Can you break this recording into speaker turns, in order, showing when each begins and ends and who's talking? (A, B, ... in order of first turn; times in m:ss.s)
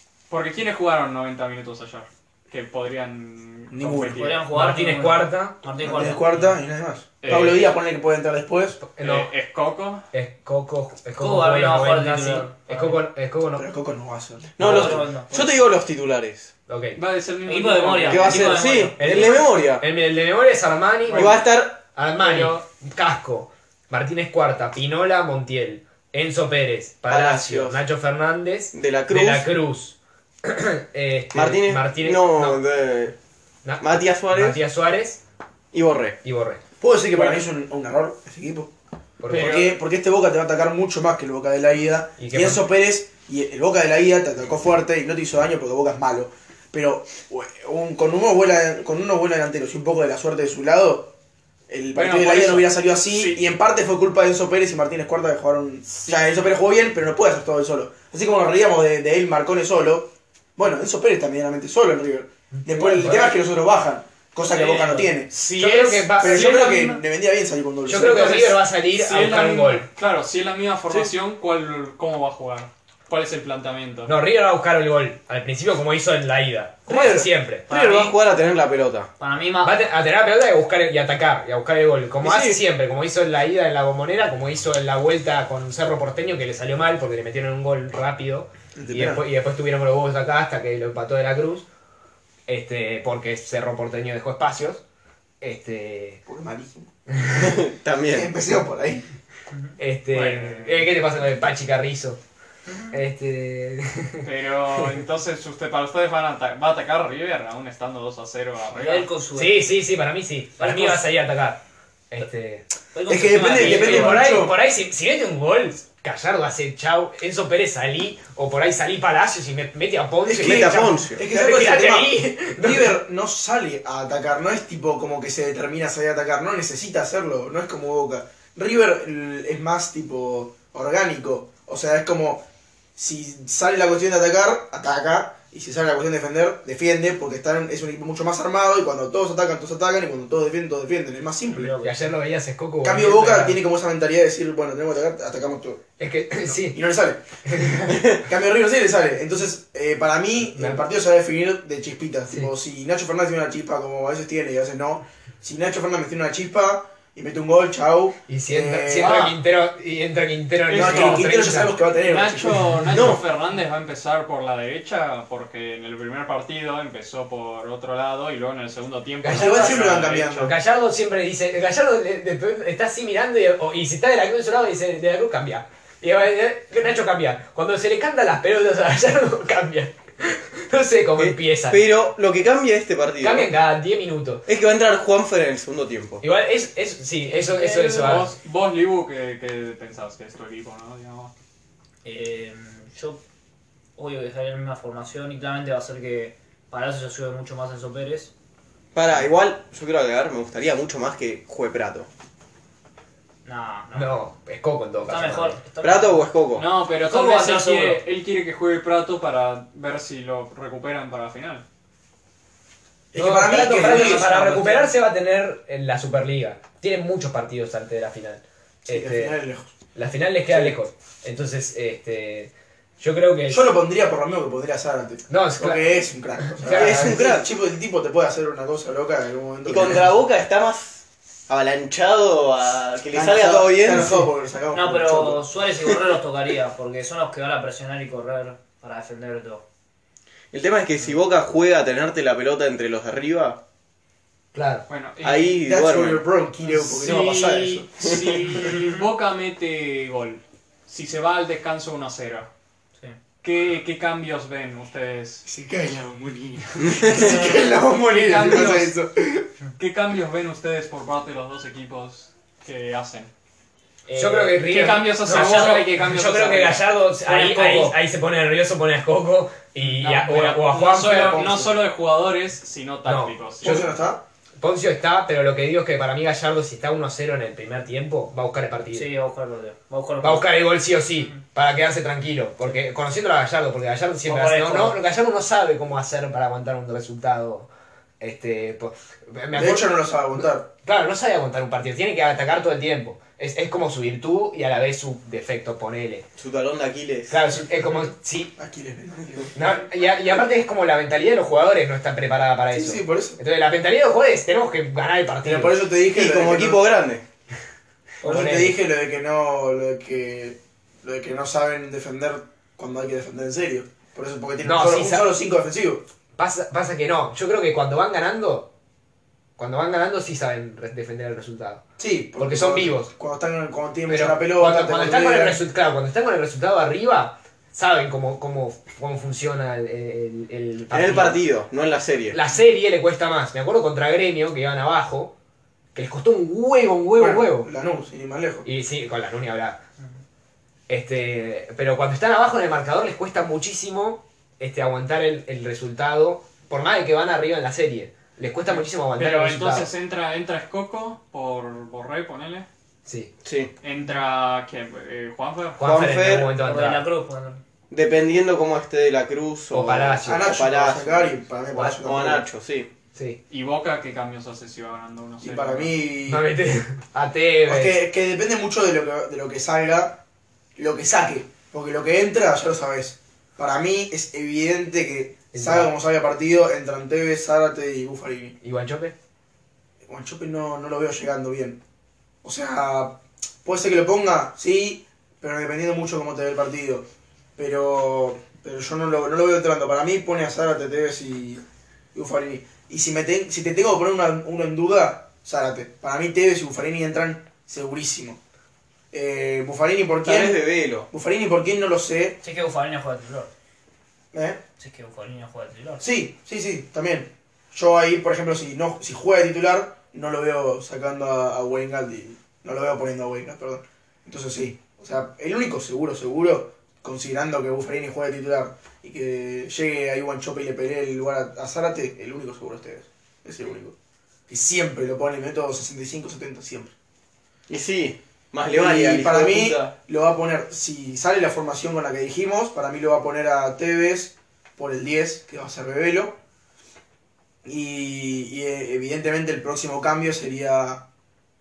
0:00.3-0:04.4 A
0:03.7-0:04.3 B
0:04.1-0:06.6 C
0:04.5-0:05.6 D
0:05.8-0:08.8 B
0:07.2-0:07.8 A
0:08.9-0:09.3 D
0:09.0-0:10.0 A
0:10.1-0:13.7 D
0:11.2-0:13.0 C
0:13.6-0:15.0 B
0:14.6-0:16.5 E
0:14.6-0:15.6 C
0:16.7-0:17.0 D
0:17.0-0:18.6 A
0:17.5-0:19.4 C
0:18.1-0:19.8 E
0:19.0-0:32.6 D
0:21.2-0:21.8 E
0:22.2-0:22.6 A
0:27.1-0:27.8 E
0:28.7-0:29.5 E
0:31.3-0:33.2 E
0:33.6-0:35.2 D
0:33.8-0:34.6 E
0:35.7-0:36.2 E
0:36.2-0:36.6 D
0:36.8-0:38.7 B
0:37.2-0:37.4 A
0:39.2-0:39.6 D
0:39.3-0:51.1 B
0:39.3-0:39.8 A
0:42.2-0:42.7 D
0:51.7-1:05.3 B
0:52.0-0:53.4 A
1:02.6-1:03.3 D
1:02.8-1:03.3 A
1:04.5-1:07.0 A
1:05.5-1:06.7 D
1:06.2-1:08.5 B
1:07.9-1:09.9 D
1:07.9-1:14.1 A
1:14.1-1:17.8 D
1:16.9-1:19.1 E
1:17.7-1:18.1 A
1:19.2-1:19.8 C
1:19.6-1:31.7 D
1:22.2-1:22.6 E
1:28.8-1:29.2 B
1:32.5-1:34.8 D
1:35.4-1:36.2 D
1:36.3-1:36.9 B
1:37.3-1:38.3 E
1:38.1-1:39.1 B
1:39.8-1:42.2 D
1:40.1-1:40.9 A
1:42.9-1:44.3 D
1:44.2-1:49.1 A
1:48.7-1:49.7 C
1:49.4-1:52.7 D
1:50.6-1:51.1 C
1:52.9-1:54.4 C
1:53.1-1:54.6 B
1:53.4-2:03.0 D
2:00.3-2:12.4 B
2:00.3-2:01.2 E
2:13.0-2:21.8 B
2:21.6-2:21.9 C
2:21.8-2:23.6 D
2:22.8-2:25.8 B
2:26.0-2:26.8 D
2:26.4-2:39.3 B
2:27.5-2:28.1 D
2:30.6-2:30.8 D
2:38.3-2:41.8 D
2:39.0-2:39.3 A
2:40.7-2:41.3 A
2:40.7-2:43.2 B
2:42.0-2:50.5 A
2:42.9-2:43.2 E
2:49.2-2:50.5 B
2:49.2-3:01.8 D
3:01.2-3:03.5 E
3:03.2-3:04.4 D
3:04.5-3:06.2 E
3:06.2-3:08.3 D
3:07.5-3:11.3 A
3:12.0-3:13.2 C
3:14.0-3:18.3 C
3:18.9-3:22.1 E
3:23.4-3:24.1 C
3:23.9-3:25.6 D
3:25.1-3:26.3 C
3:25.8-3:26.7 E
3:26.6-3:31.6 A
3:27.0-3:28.0 C
3:33.1-3:34.4 B
3:33.2-3:39.4 D
3:33.8-3:34.8 A
3:33.8-3:34.6 C
3:38.9-3:39.7 B
3:40.0-3:43.7 D
3:43.5-3:50.1 B
3:45.3-3:47.2 D
3:46.7-3:47.5 E
3:49.7-3:54.2 E
3:53.1-3:55.4 B
3:54.7-3:59.6 C
4:00.5-4:03.6 E
4:04.5-4:04.9 D
4:04.9-4:05.6 A
4:05.2-4:06.2 E
4:05.6-4:08.6 B
4:06.7-4:12.5 A
4:08.0-4:08.4 E
4:13.4-4:15.5 A
4:15.4-4:19.5 B
4:17.1-4:19.0 A
4:19.8-4:23.3 A
4:24.1-4:24.6 C
4:24.1-4:31.7 D
4:24.6-4:26.9 A
4:25.3-4:25.8 C
4:27.2-4:28.0 C
4:29.9-4:33.8 A
4:33.0-4:33.9 D
4:33.6-4:34.2 B
4:34.6-4:39.1 D
4:38.9-4:40.5 C
4:40.2-4:47.7 D
4:44.3-4:45.0 C
4:48.2-4:56.3 D
4:49.5-4:50.7 B
4:56.4-4:57.4 E
4:57.3-4:58.5 D
4:58.6-4:59.7 B
4:59.5-5:05.8 D
5:02.7-5:03.4 B
5:05.4-5:06.9 B
5:06.1-5:07.2 E
5:08.2-5:08.8 D
5:08.2-5:16.0 B
5:14.6-5:15.3 D
5:16.4-5:18.7 D
5:19.6-5:21.8 D
5:22.0-5:25.6 B
5:22.4-5:23.1 D
5:24.1-5:31.4 D
5:30.9-5:32.4 E
5:32.3-5:35.3 D
5:36.0-5:37.7 D
5:37.2-5:38.7 B
5:38.6-5:39.8 D
5:40.9-5:49.9 D
5:49.2-5:52.7 A
5:53.1-5:53.3 D
5:53.4-5:53.7 E
5:53.8-5:55.8 A
5:55.8-5:57.1 D
5:55.8-5:56.6 E
5:56.6-5:57.6 C
5:57.9-6:02.9 E
5:59.7-6:00.6 D
6:00.2-6:02.5 B
6:03.5-6:05.9 A
6:05.4-6:06.4 B
6:06.3-6:08.0 D
6:07.7-6:10.2 B
6:10.8-6:18.6 B
6:15.5-6:15.9 D
6:18.6-6:19.2 D
6:20.0-6:21.8 B
6:22.4-6:27.1 B
6:27.6-6:31.6 B
6:32.1-6:38.4 B
6:39.1-6:42.4 B
6:40.2-6:41.1 E
6:42.4-6:43.5 C
6:44.3-6:44.6 B
6:44.8-6:46.1 C
6:46.0-7:04.0 B
7:04.5-7:06.9 B
7:07.7-7:09.9 E
7:08.7-7:16.4 B
7:17.6-7:21.0 B